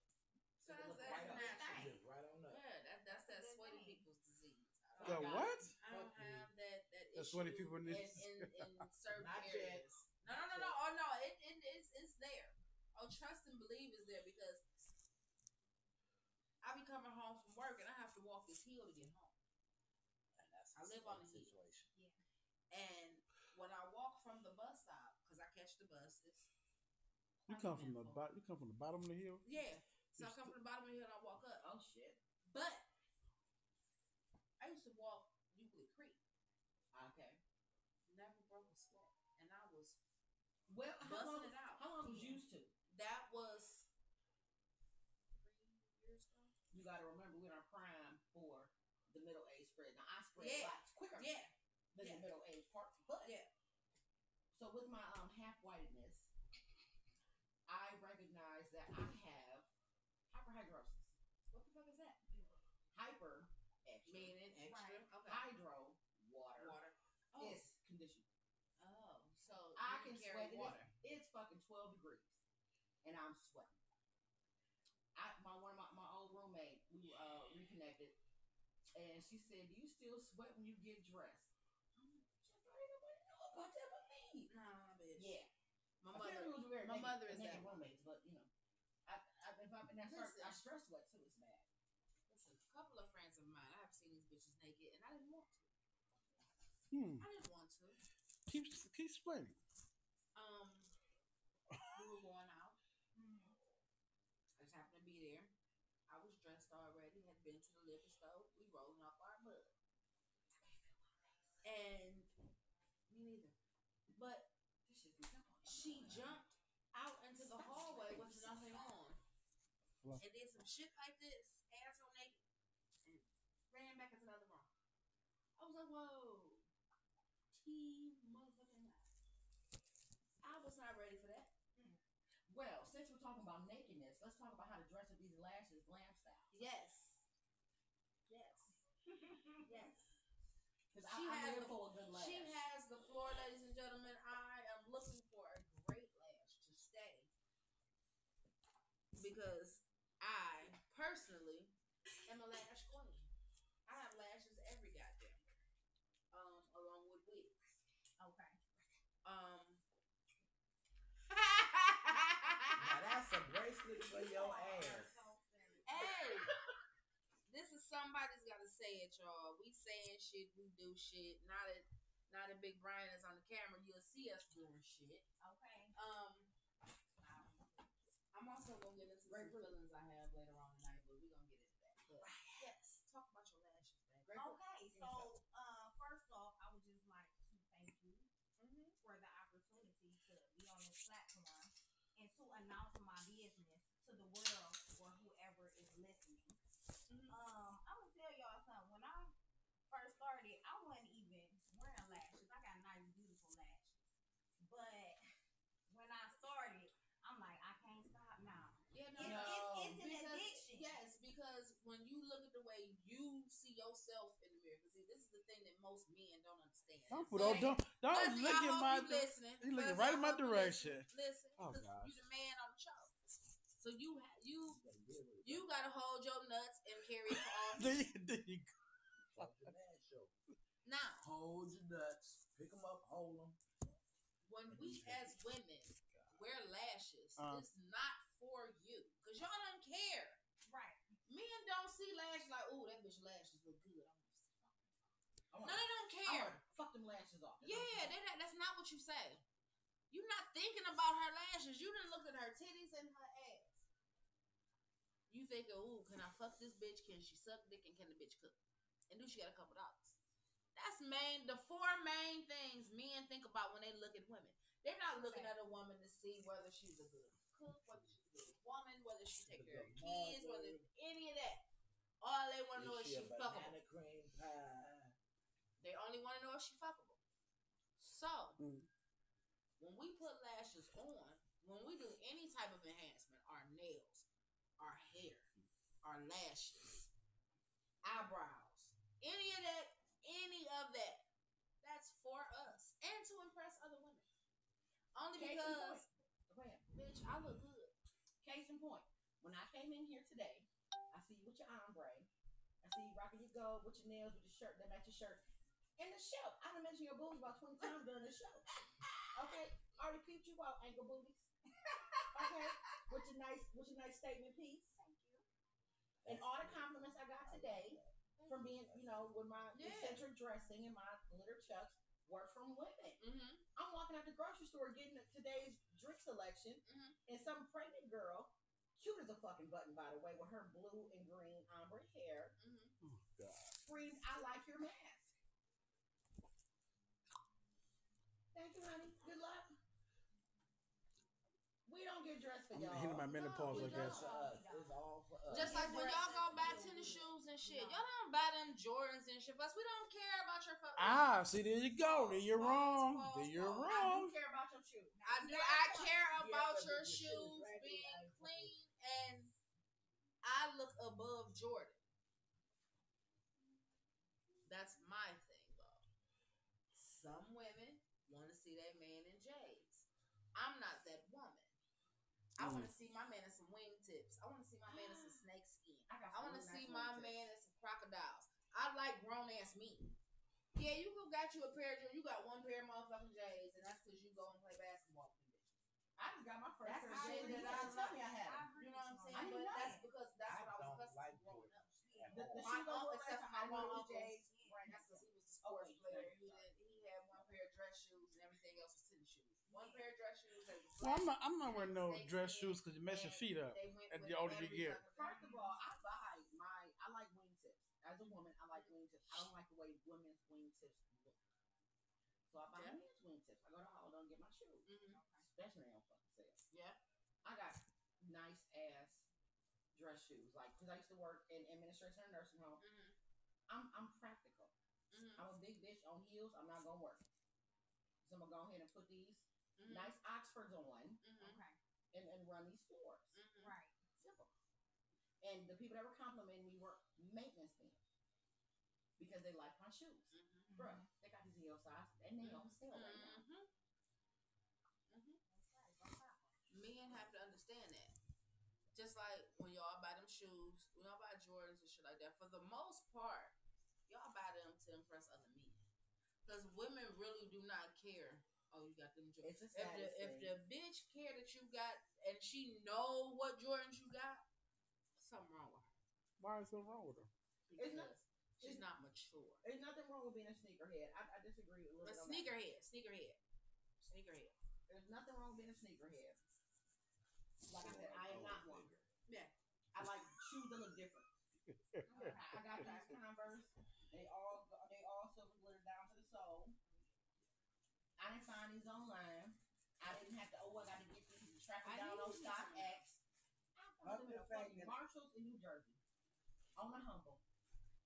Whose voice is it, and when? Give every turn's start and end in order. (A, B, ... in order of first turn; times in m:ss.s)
0:00.6-0:01.8 A
0:00.6-0:14.6 B
0:01.0-0:02.0 C
0:01.1-0:02.6 D
0:03.1-0:04.0 C
0:05.0-0:05.5 A
0:05.0-0:05.7 E
0:05.0-0:06.5 D
0:07.1-0:08.8 E
0:09.1-0:09.9 D
0:16.6-0:19.4 B
0:20.4-0:21.9 D
0:20.7-0:21.6 B
0:22.7-0:26.5 B
0:27.4-0:28.2 B
0:27.5-0:29.4 E
0:29.4-0:31.6 B
0:30.2-0:30.5 E
0:31.6-0:32.2 A
0:32.5-0:32.8 B
0:34.6-0:36.2 B
0:36.9-0:37.4 A
0:38.1-0:40.0 B
0:40.7-0:42.7 A
0:41.0-0:42.4 B
0:42.9-0:43.9 B
0:45.3-0:46.5 B
0:46.7-0:51.3 A
0:50.4-0:52.3 B
0:51.9-0:53.4 A
0:53.2-0:53.5 B
0:54.5-0:56.3 A
0:57.7-0:59.7 A
1:00.3-1:01.1 A
1:01.5-1:02.6 B
1:02.9-1:04.4 A
1:04.0-1:05.5 B
1:04.6-1:05.0 C
1:05.2-1:06.8 A
1:06.6-1:07.7 B
1:07.4-1:08.3 A
1:08.8-1:10.9 B
1:09.8-1:12.4 A
1:13.0-1:13.8 A
1:15.1-1:18.2 A
1:18.9-1:24.5 A
1:24.5-1:25.3 B
1:25.2-1:25.5 A
1:26.0-1:27.8 B
1:26.1-1:28.5 A
1:29.0-1:31.6 A
1:30.0-1:30.6 B
1:32.3-1:35.7 B
1:36.9-1:37.2 E
1:37.2-1:38.0 B
1:38.5-1:39.6 E
1:40.3-1:40.9 B
1:41.9-1:42.8 B
1:43.1-1:43.5 C
1:44.6-1:45.5 B
1:46.1-1:49.7 B
1:50.6-1:51.0 A
1:51.6-1:52.3 B
1:53.1-1:53.6 B
1:54.1-1:54.5 B
1:54.9-1:56.4 A
1:55.6-1:59.2 B
1:57.5-1:58.8 A
2:00.2-2:02.4 B
2:03.0-2:04.7 B
2:05.6-2:06.7 B
2:07.5-2:09.1 B
2:10.4-2:11.5 B
2:12.5-2:16.5 A
2:16.5-2:17.2 B
2:18.3-2:18.8 B
2:19.0-2:19.6 C
2:19.6-2:20.1 B
2:20.9-2:22.6 A
2:21.0-2:27.3 B
2:29.1-2:31.7 B
2:32.2-2:33.3 B
2:33.8-2:35.4 B
2:36.3-2:37.6 B
2:38.2-2:38.6 C
2:39.2-2:39.8 B
2:41.3-2:42.9 B
2:42.7-2:45.2 D
2:43.8-2:46.2 C
2:45.8-2:46.5 B
2:47.5-2:55.2 B
2:55.4-2:55.9 C
2:55.9-2:56.5 B
2:57.2-2:57.8 C
2:58.3-3:04.3 B
2:59.2-2:59.8 A
3:02.2-3:02.7 A
3:04.2-3:05.3 A
3:04.3-3:08.3 C
3:08.6-3:09.0 B
3:09.0-3:16.6 C
3:17.1-3:17.4 B
3:17.3-3:19.3 C
3:19.9-3:24.1 C
3:24.6-3:25.2 C
3:25.9-3:30.9 C
3:28.9-3:43.1 B
3:29.2-3:29.8 A
3:37.1-3:42.2 E
3:43.8-3:44.8 B
3:44.7-3:45.7 D
3:45.4-3:48.1 B
3:47.3-3:48.7 E
3:49.3-3:50.3 D
3:49.4-3:49.7 E
3:50.8-3:51.2 B
3:51.2-3:53.6 D
3:54.4-4:00.4 B
3:54.7-3:55.4 D
3:57.4-3:57.6 E
4:00.6-4:01.2 C
4:01.3-4:04.9 B
4:05.5-4:08.1 A
4:05.6-4:06.6 B
4:07.6-4:09.4 B
4:10.1-4:13.8 B
4:15.3-4:18.6 B
4:19.1-4:20.2 B
4:20.7-4:31.6 B
4:25.1-4:25.5 C
4:29.4-4:30.9 D
4:32.2-4:33.8 B
4:32.7-4:35.1 D
4:35.8-4:37.2 B
4:38.0-4:38.6 B
4:38.6-4:38.9 E
4:39.8-4:44.3 B
4:44.8-4:45.5 B
4:46.0-4:47.1 B
4:48.0-4:51.2 B
4:51.8-4:54.3 B
4:55.1-4:56.1 B
4:55.3-4:56.9 A
4:56.9-4:57.9 B
4:58.4-5:02.3 A
5:02.8-5:05.4 A
5:06.0-5:08.7 A
5:09.3-5:11.5 A
5:11.8-5:13.0 C
5:12.3-5:14.9 A
5:14.9-5:15.4 C
5:16.2-5:19.4 D
5:16.2-5:23.2 A
5:19.7-5:20.2 B
5:23.2-5:23.6 B
5:23.7-5:32.5 A
5:26.8-5:27.2 B
5:32.6-5:32.9 B
5:33.0-5:33.8 E
5:33.8-5:35.3 A
5:38.5-5:39.8 A
5:41.8-5:44.3 A
5:42.7-5:44.2 E
5:43.3-5:48.1 C
5:43.6-5:45.8 D
5:45.5-5:51.3 B
5:51.0-5:54.3 E
5:52.0-5:54.0 B
5:53.8-5:56.2 A
5:55.2-5:59.5 B
5:56.3-5:58.7 D
6:00.4-6:02.0 B
6:04.6-6:06.0 B
6:06.9-6:11.7 B
6:12.5-6:20.2 B
6:12.6-6:12.9 E
6:14.8-6:15.4 A
6:16.1-6:17.4 A
6:20.7-6:25.7 B
6:26.2-6:28.7 A
6:26.8-6:28.2 B
6:27.0-6:30.1 C
6:28.8-6:31.8 B
6:29.3-6:30.0 A
6:30.4-6:32.8 D
6:32.0-6:32.6 C
6:32.3-6:36.7 A
6:32.6-6:45.3 B
6:33.8-6:34.8 C
6:39.7-6:40.1 C
6:41.0-6:45.0 E
6:45.0-6:51.4 A
6:45.2-6:45.8 C
6:48.7-6:49.4 B
6:52.5-6:54.9 A
6:52.7-6:53.0 B
6:54.8-6:55.2 B
6:55.1-6:55.5 C
6:55.5-6:56.6 A
6:56.7-6:57.0 B
6:57.4-6:59.3 A
6:59.9-7:02.8 A
7:02.8-7:03.2 B
7:03.7-7:04.7 A
7:05.1-7:05.5 B
7:05.4-7:07.2 A
7:08.2-7:11.2 A
7:09.8-7:10.2 B
7:11.2-7:11.6 B
7:11.4-7:11.8 C
7:12.1-7:13.4 A
7:13.3-7:13.7 B
7:13.6-7:14.0 C
7:14.2-7:14.5 A
7:15.4-7:18.0 A
7:19.2-7:23.4 A
7:20.3-7:20.8 B
7:20.7-7:21.1 C
7:22.4-7:23.7 B
7:25.1-7:25.4 B
7:25.5-7:26.5 C
7:26.7-7:28.2 B
7:28.9-7:33.5 B
7:34.1-7:35.8 B
7:36.4-7:44.4 B
7:39.4-7:40.5 A
7:45.2-7:45.9 B
7:46.4-7:47.3 E
7:47.7-7:49.6 B
7:47.8-7:48.8 A
7:49.6-7:52.5 A
7:52.0-7:53.4 B
7:54.0-7:54.5 B
7:54.9-7:56.4 A
7:57.7-7:58.9 A
7:57.7-7:59.0 D
7:59.3-7:59.5 B
7:59.9-8:01.3 A
8:01.7-8:03.0 E
8:02.1-8:02.6 C
8:02.1-8:06.8 A
8:08.2-8:13.2 A
8:11.8-8:13.0 B
8:13.7-8:16.0 A
8:14.0-8:15.0 D
8:16.8-8:17.4 A